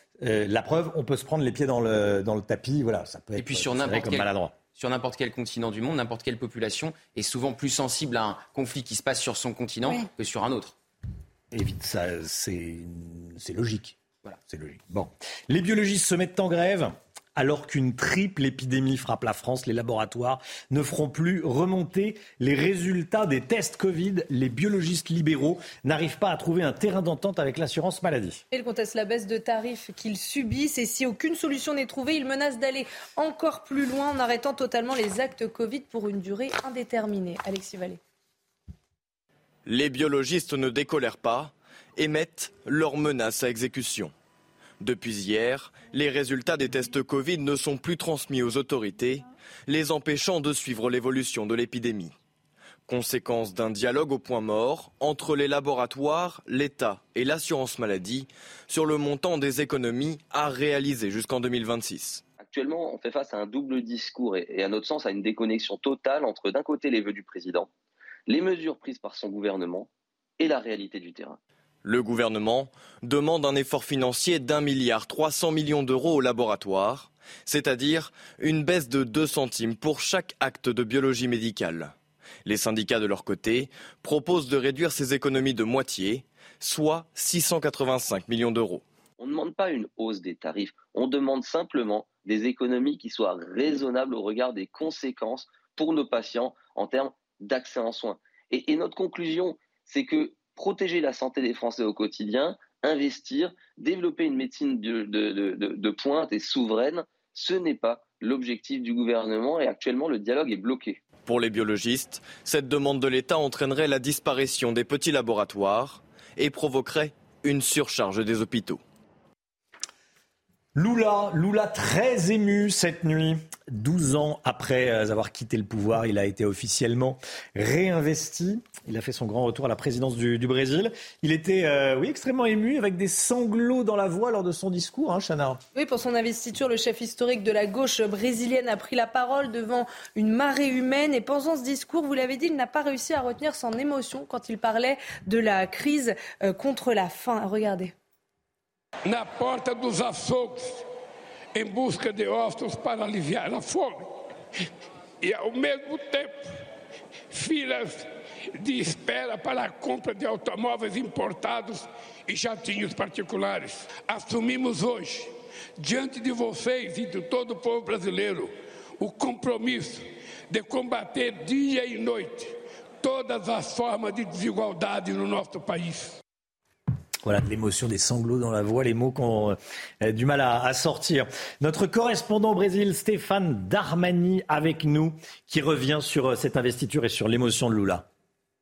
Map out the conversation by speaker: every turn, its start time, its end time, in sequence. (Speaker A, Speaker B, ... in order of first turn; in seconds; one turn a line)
Speaker A: 0.2-4.5
Speaker B: 3.4-10.7
Speaker A: 11.5-28.4
Speaker C: 28.5-38.0
Speaker D: 39.6-44.1
Speaker D: 44.8-52.1
Speaker D: 52.9-62.2
Speaker E: 62.4-67.7
Speaker E: 68.3-71.4
Speaker D: 71.8-81.9
Speaker D: 82.4-88.8
Speaker E: 89.2-111.0
Speaker D: 111.2-118.8
Speaker A: 120.7-135.6
Speaker C: 135.7-147.9
Speaker F: 149.0-150.8
Speaker F: 151.5-154.1
Speaker F: 155.2-156.5
Speaker F: 157.3-176.2
Speaker A: 177.2-188.1